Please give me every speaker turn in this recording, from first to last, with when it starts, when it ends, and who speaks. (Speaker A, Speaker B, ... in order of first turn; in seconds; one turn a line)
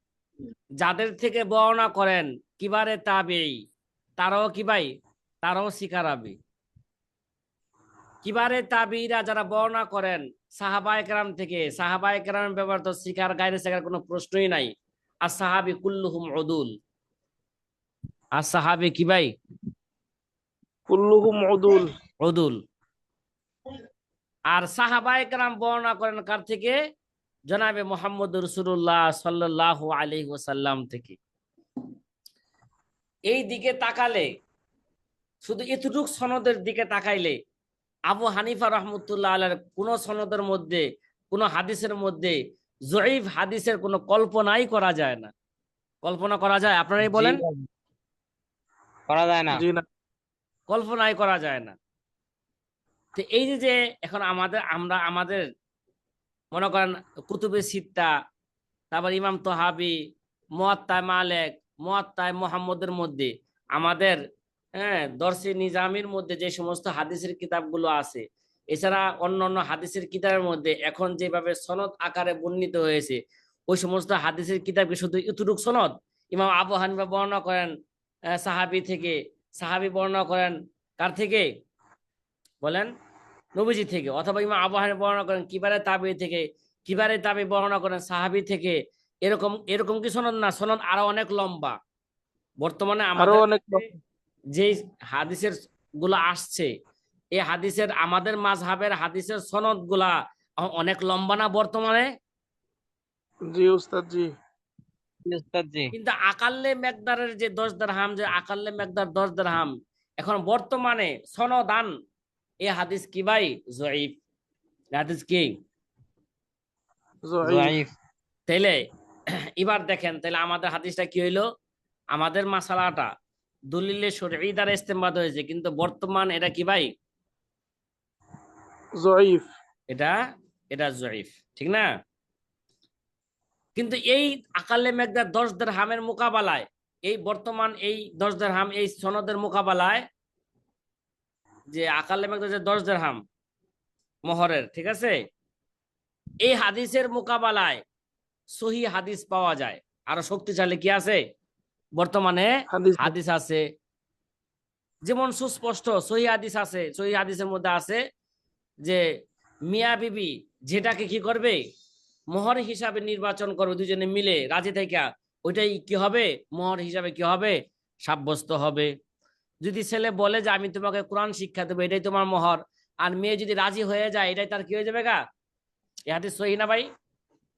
Speaker A: 0.8-3.5
Speaker A: 4.2-4.9
Speaker A: 5.4-6.4
Speaker A: 8.2-14.7
Speaker A: 15.3-16.7
Speaker A: 18.4-19.3
Speaker B: 20.9-21.9
Speaker A: 22.2-22.6
Speaker A: 24.5-26.8
Speaker A: 27.5-31.2
Speaker A: 33.3-34.3
Speaker A: 35.4-37.4
Speaker A: 38.1-42.4
Speaker A: 42.9-45.3
Speaker A: 46.0-47.4
Speaker C: 47.2-47.6
Speaker C: 49.1-49.6
Speaker B: 49.5-49.9
Speaker A: 50.7-51.8
Speaker A: 53.2-55.4
Speaker A: 56.5-58.1
Speaker A: 58.9-60.0
Speaker A: 60.6-64.2
Speaker A: 64.8-73.2
Speaker A: 73.7-77.7
Speaker A: 78.4-81.5
Speaker A: 82.6-82.9
Speaker A: 83.6-91.8
Speaker A: 92.6-93.8
Speaker B: 93.2-93.9
Speaker A: 94.5-96.7
Speaker A: 97.4-102.1
Speaker B: 103.5-104.3
Speaker C: 105.3-105.9
Speaker A: 105.9-111.9
Speaker A: 112.6-114.1
Speaker A: 115.0-115.5
Speaker B: 117.2-117.8
Speaker C: 117.4-117.9
Speaker A: 118.5-118.8
Speaker A: 119.6-121.4
Speaker A: 122.1-123.1
Speaker A: 123.7-126.9
Speaker B: 129.0-129.5
Speaker A: 130.7-131.9
Speaker A: 133.8-140.0
Speaker A: 141.7-143.2
Speaker A: 144.3-145.1
Speaker A: 146.4-147.8
Speaker A: 148.6-151.2
Speaker A: 152.0-153.6
Speaker B: 152.7-153.1
Speaker A: 155.1-158.0
Speaker A: 159.7-161.6
Speaker A: 162.3-168.9
Speaker A: 169.6-175.2
Speaker A: 176.1-176.9